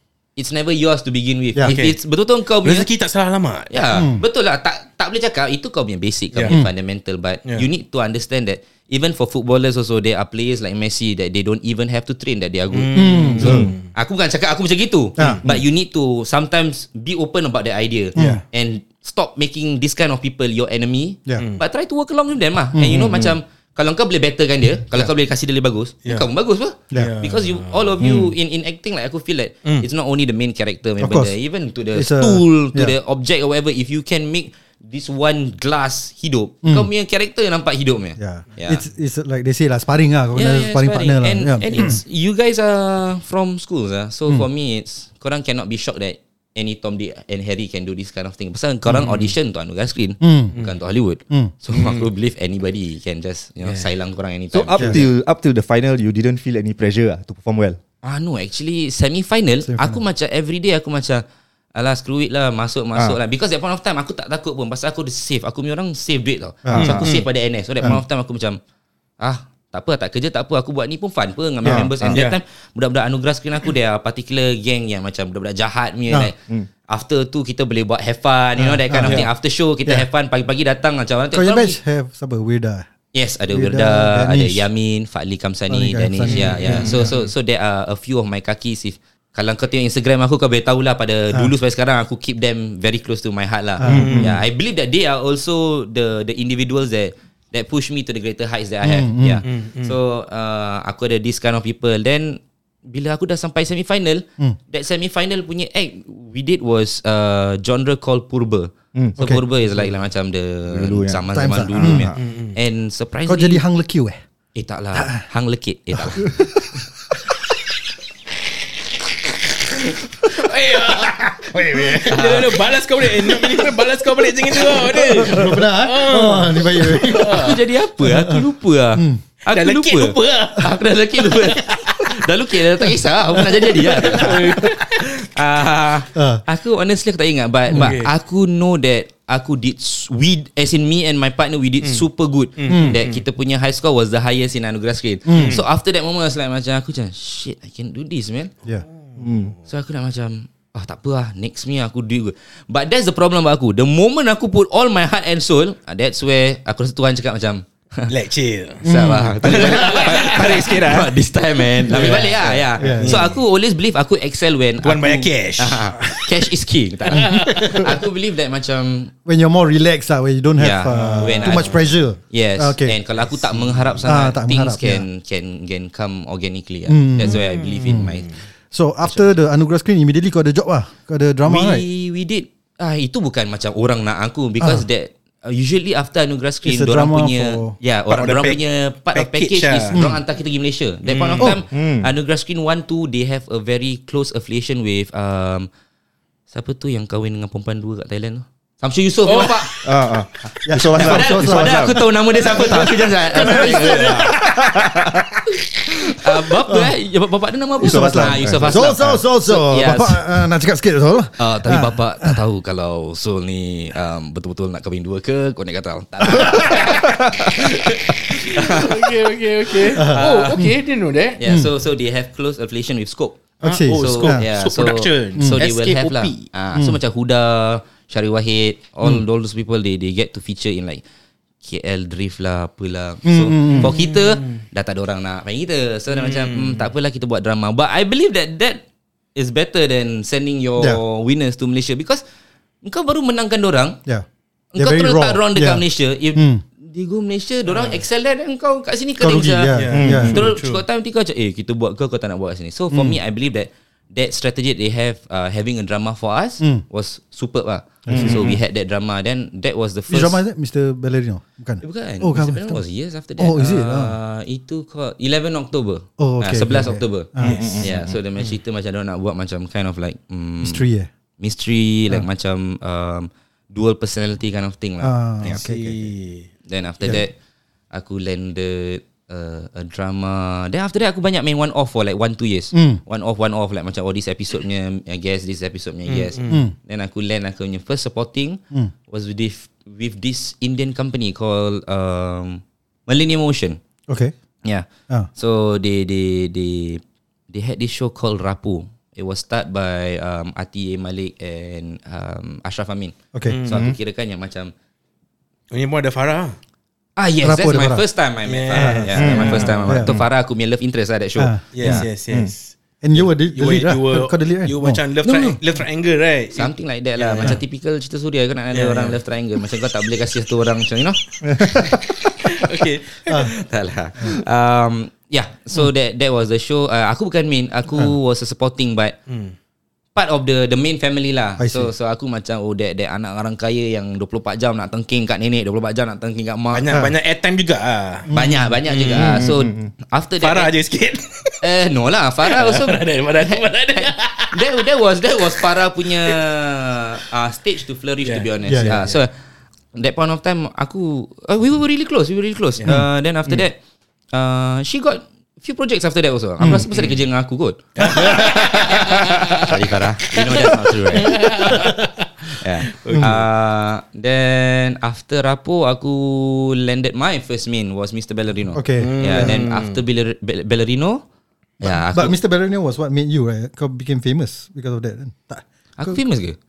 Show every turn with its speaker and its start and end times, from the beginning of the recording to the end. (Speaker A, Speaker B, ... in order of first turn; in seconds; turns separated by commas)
Speaker A: 0.4-2.9, Speaker B: 1.7-2.0, Speaker B: 2.6-3.7, Speaker A: 3.7-38.8, Speaker C: 3.9-4.2, Speaker B: 6.3-6.6, Speaker B: 12.7-13.9, Speaker C: 12.9-13.7, Speaker D: 13.4-13.7, Speaker C: 15.2-15.6, Speaker C: 18.1-18.4, Speaker B: 21.4-21.6, Speaker C: 22.7-23.3, Speaker B: 26.9-27.9, Speaker D: 28.0-28.3, Speaker C: 31.0-31.4, Speaker C: 31.9-32.9, Speaker C: 36.6-36.9, Speaker C: 38.2-42.0, Speaker A: 40.4-55.1, Speaker B: 48.9-49.3, Speaker C: 50.2-50.6, Speaker B: 51.7-52.1, Speaker D: 54.5-57.8, Speaker C: 54.8-55.0, Speaker A: 58.0-61.2, Speaker C: 59.6-60.0, Speaker A: 61.8-68.6, Speaker C: 66.6-67.0, Speaker D: 66.7-67.1, Speaker B: 66.7-67.3, Speaker A: 69.2-76.4, Speaker C: 71.6-72.1, Speaker D: 71.6-72.2, Speaker B: 72.1-72.4, Speaker A: 76.9-81.8, Speaker C: 78.6-79.3, Speaker B: 79.0-79.3, Speaker C: 81.3-82.9, Speaker A: 83.1-113.6, Speaker C: 83.5-84.7, Speaker C: 85.7-87.1, Speaker B: 86.2-87.2, Speaker C: 93.8-94.3, Speaker B: 93.9-94.4, Speaker D: 93.9-94.3, Speaker C: 98.8-99.4, Speaker B: 99.5-100.0, Speaker C: 109.2-109.4, Speaker D: 110.7-112.2, Speaker C: 111.3-112.1, Speaker B: 112.2-112.6, Speaker C: 113.3-114.2, Speaker A: 114.5-116.4, Speaker C: 115.0-115.2, Speaker C: 115.9-116.8, Speaker B: 120.2-127.6, Speaker A: 122.0-122.6, Speaker C: 124.6-129.2, Speaker A: 127.1-148.5, Speaker B: 129.5-130.8, Speaker C: 133.4-134.7, Speaker B: 134.0-134.8, Speaker C: 136.1-136.4, Speaker B: 137.7-138.1, Speaker B: 142.6-143.2, Speaker C: 142.7-143.0, Speaker C: 145.3-145.6, Speaker B: 145.3-145.6, Speaker D: 149.2-149.6, Speaker A: 149.7-158.1, Speaker B: 158.1-158.8, Speaker C: 158.8-159.9, Speaker A: 158.8-169.1, Speaker B: 159.4-161.2, Speaker B: 161.7-163.4, Speaker C: 161.9-163.3, Speaker B: 164.8-166.4, Speaker B: 167.1-167.9, Speaker C: 167.1-167.9, Speaker C: 169.2-173.0, Speaker A: 170.6-178.3, Speaker B: 170.9-171.9, Speaker B: 173.5-174.0, Speaker C: 174.1-175.1, Speaker C: 176.9-178.2, Speaker B: 177.3-178.2, Speaker C: 178.7-181.8, Speaker A: 179.0-179.3, Speaker A: 181.5-195.7, Speaker C: 184.6-184.8, Speaker C: 186.7-187.8, Speaker B: 188.1-188.6, Speaker B: 189.1-190.0, Speaker C: 189.9-190.2, Speaker B: 191.1-191.6, Speaker D: 191.5-192.1, Speaker A: 196.5-199.8, Speaker B: 199.3-199.9, Speaker D: 199.8-202.0, Speaker C: 200.7-205.3, Speaker A: 200.9-204.7, Speaker D: 204.3-205.2, Speaker A: 206.1-210.3, Speaker C: 206.7-206.9, Speaker C: 207.8-212.4, Speaker D: 207.8-209.1, Speaker A: 211.4-219.2, Speaker C: 216.3-216.8, Speaker B: 218.4-221.4, Speaker A: 219.7-220.7, Speaker C: 219.9-220.8, Speaker A: 221.4-231.0, Speaker C: 221.4-221.7, Speaker C: 223.6-224.4, Speaker B: 223.6-226.5, Speaker C: 225.4-225.6, Speaker A: 231.6-238.8, Speaker C: 233.2-233.9, Speaker B: 233.7-234.6, Speaker B: 236.1-236.9, Speaker A: 239.3-242.2, Speaker A: 242.8-244.0, Speaker C: 244.1-246.6, Speaker A: 244.7-249.8, Speaker B: 247.7-248.0, Speaker C: 249.2-250.5, Speaker B: 249.7-250.8, Speaker D: 249.9-250.5, Speaker A: 250.3-260.4, Speaker C: 252.9-253.2, Speaker C: 258.1-258.5, Speaker D: 258.1-258.6, Speaker C: 260.1-262.9, Speaker A: 261.8-270.8, Speaker C: 263.4-264.1, Speaker C: 266.2-267.7, Speaker D: 267.4-268.1, Speaker B: 267.4-267.8, Speaker C: 270.6-271.1, Speaker A: 271.4-275.6, Speaker C: 275.0-276.0, Speaker B: 275.4-276.5, Speaker A: 276.7-277.3, Speaker A: 277.9-293.8, Speaker C: 282.7-283.0, Speaker B: 286.1-286.6, Speaker C: 286.5-286.8, Speaker C: 294.1-294.3, Speaker A: 294.6-304.7, Speaker C: 303.3-303.6, Speaker B: 303.5-303.9, Speaker D: 303.7-303.9, Speaker B: 305.7-306.6, Speaker A: 307.2-311.7, Speaker C: 307.4-308.1, Speaker B: 308.4-309.8, Speaker C: 308.7-310.1, Speaker D: 309.2-310.3, Speaker C: 311.4-312.1, Speaker B: 311.7-317.6, Speaker D: 311.9-312.5, Speaker C: 313.0-315.0, Speaker A: 315.2-315.6, Speaker A: 316.6-322.5, Speaker B: 318.7-319.2, Speaker B: 322.4-323.5, Speaker A: 323.3-329.2, Speaker B: 329.3-329.6, Speaker A: 330.1-336.9, Speaker C: 331.6-331.9, Speaker B: 336.7-338.3, Speaker C: 338.3-338.8, Speaker A: 338.3-340.7, Speaker B: 338.9-339.8, Speaker D: 339.2-339.6, Speaker B: 340.4-341.6, Speaker A: 341.6-349.3, Speaker B: 342.4-344.8, Speaker B: 345.6-346.4, Speaker B: 348.2-349.2, Speaker C: 348.7-349.0, Speaker A: 349.9-353.8, Speaker A: 354.3-361.9, Speaker C: 356.6-356.9, Speaker B: 356.9-357.2, Speaker B: 358.0-359.7, Speaker B: 360.3-363.4, Speaker C: 361.7-362.0, Speaker A: 362.6-371.2, Speaker C: 363.1-363.4, Speaker C: 368.7-369.6, Speaker B: 369.0-370.0, Speaker A: 371.8-372.4, Speaker C: 371.8-376.2, Speaker A: 376.0-376.6